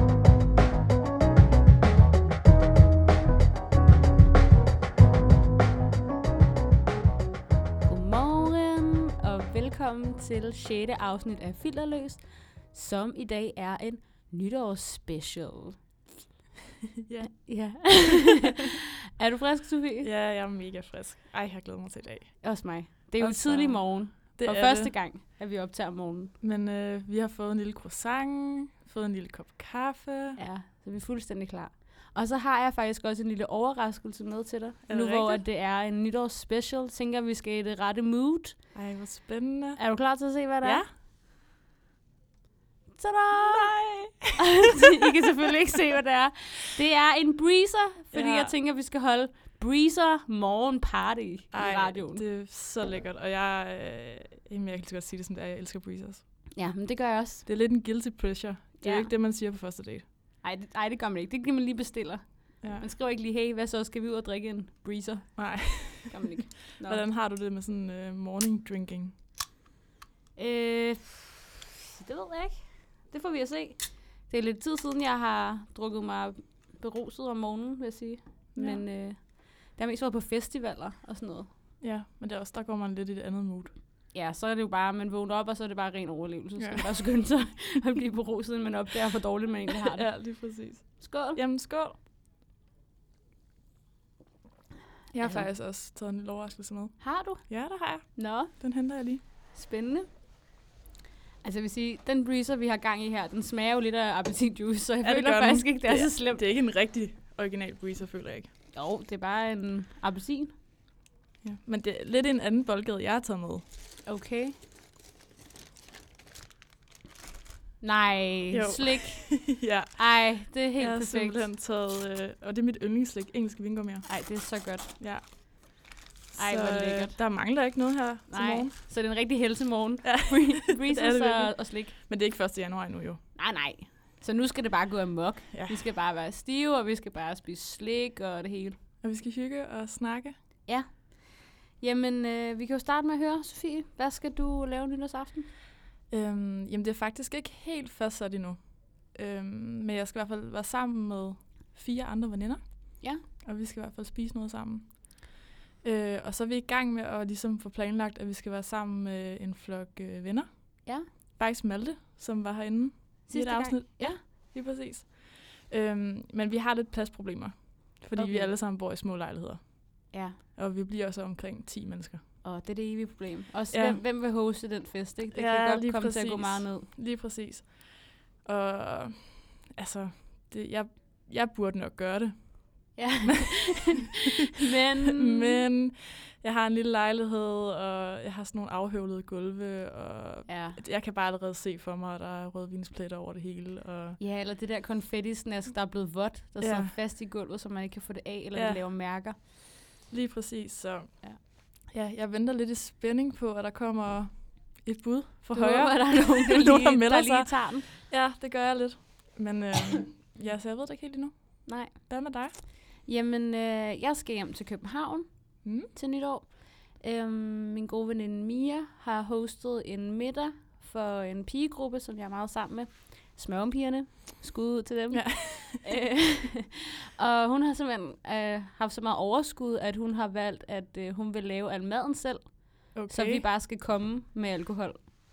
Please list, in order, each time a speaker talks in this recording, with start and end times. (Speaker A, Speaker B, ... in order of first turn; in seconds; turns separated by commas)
Speaker A: 7.8-15.8, Speaker B: 17.0-18.0, Speaker A: 17.4-20.1, Speaker B: 20.0-22.6, Speaker A: 22.4-26.3, Speaker B: 23.2-24.9, Speaker B: 26.4-30.4, Speaker A: 30.4-38.7, Speaker B: 34.9-35.4, Speaker B: 38.7-39.8, Speaker A: 39.8-40.9, Speaker B: 40.6-40.9, Speaker A: 43.0-43.7, Speaker B: 43.3-44.4, Speaker A: 44.4-52.2, Speaker B: 48.1-48.5, Speaker B: 51.5-56.2, Speaker A: 56.6-57.5, Speaker B: 57.5-60.0, Speaker A: 58.8-59.1, Speaker A: 60.4-67.0, Speaker B: 62.6-62.9, Speaker B: 65.4-69.1, Speaker A: 70.4-81.5, Speaker B: 78.5-78.9, Speaker B: 81.8-83.8, Speaker A: 84.1-90.2, Speaker B: 89.7-92.0, Speaker A: 91.0-91.4, Speaker B: 95.1-99.2, Speaker A: 95.2-95.5, Speaker A: 97.0-98.5, Speaker A: 99.5-100.1, Speaker A: 101.4-106.4, Speaker B: 105.0-108.5, Speaker A: 108.7-110.5, Speaker B: 111.4-113.6, Speaker A: 114.1-114.5, Speaker A: 117.8-121.4, Speaker B: 118.5-124.1, Speaker A: 124.1-124.9, Speaker B: 125.0-128.7, Speaker A: 126.3-127.2, Speaker A: 128.3-131.9, Speaker B: 130.0-133.2, Speaker A: 133.4-138.8, Speaker B: 135.5-135.8, Speaker B: 139.0-140.4, Speaker A: 140.7-145.5, Speaker B: 146.1-172.2, Speaker A: 163.3-164.2, Speaker A: 168.2-168.5, Speaker A: 170.1-170.4, Speaker A: 172.4-176.9, Speaker B: 173.7-174.0, Speaker B: 175.3-184.1, Speaker A: 183.0-185.6, Speaker B: 185.1-194.2, Speaker A: 190.5-190.8, Speaker A: 194.2-199.4, Speaker B: 196.6-196.9, Speaker B: 198.5-198.8, Speaker B: 200.1-212.6, Speaker A: 205.5-207.9, Speaker A: 211.7-235.1, Speaker B: 215.6-215.9, Speaker B: 225.1-225.8, Speaker B: 232.9-233.4